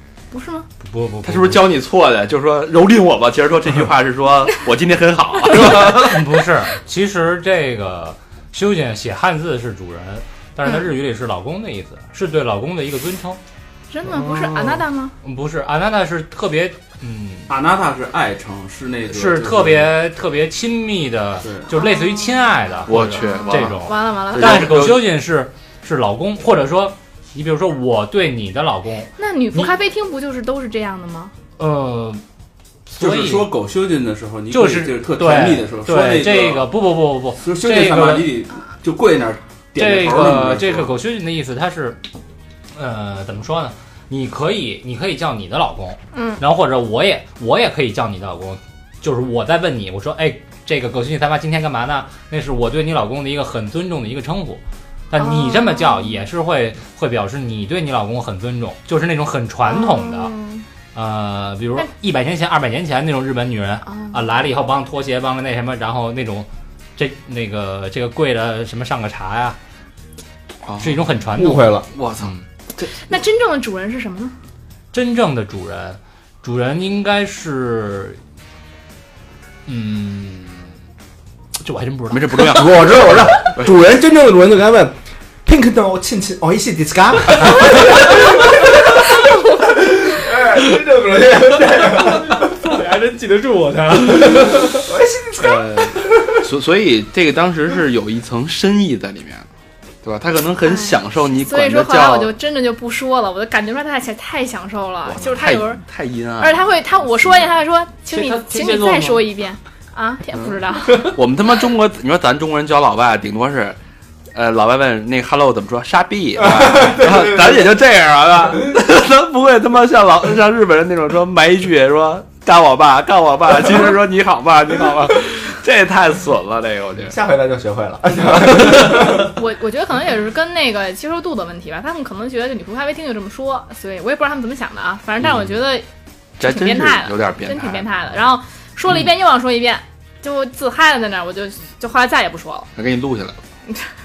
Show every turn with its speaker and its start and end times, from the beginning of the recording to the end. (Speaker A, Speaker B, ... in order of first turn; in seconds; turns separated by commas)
Speaker A: 0.3-0.7, Speaker B: 0.8-1.6, Speaker C: 1.2-6.4, Speaker B: 5.6-13.4, Speaker A: 10.6-10.9, Speaker A: 13.9-15.1, Speaker B: 15.2-17.5, Speaker D: 17.5-19.9, Speaker B: 19.1-29.7, Speaker D: 21.4-21.7, Speaker A: 21.7-24.9, Speaker C: 22.9-25.1, Speaker A: 29.2-31.3, Speaker B: 31.6-32.2, Speaker B: 32.9-33.5, Speaker D: 32.9-36.7, Speaker B: 34.5-38.3, Speaker D: 37.4-40.9, Speaker B: 39.8-42.0, Speaker B: 42.7-60.3, Speaker A: 46.1-46.4, Speaker A: 55.1-56.2, Speaker A: 59.6-60.6, Speaker B: 60.9-69.6, Speaker A: 63.9-64.2, Speaker C: 70.6-71.0, Speaker B: 70.8-72.4, Speaker E: 71.3-71.9, Speaker C: 71.9-72.9, Speaker A: 72.9-74.3, Speaker B: 74.9-78.2, Speaker B: 79.7-80.7, Speaker B: 81.6-82.8, Speaker C: 82.1-83.7, Speaker E: 82.5-89.0, Speaker E: 89.6-92.4, Speaker F: 92.3-94.8, Speaker E: 94.3-96.1, Speaker C: 95.3-99.5, Speaker C: 100.0-102.3, Speaker A: 100.6-105.8, Speaker C: 105.0-107.5, Speaker A: 106.4-111.2, Speaker F: 108.1-109.2, Speaker C: 111.1-113.8, Speaker C: 114.3-127.2, Speaker E: 116.5-117.4, Speaker E: 127.0-129.3, Speaker A: 129.2-135.8, Speaker C: 136.4-138.0, Speaker A: 136.4-142.7, Speaker C: 142.8-143.4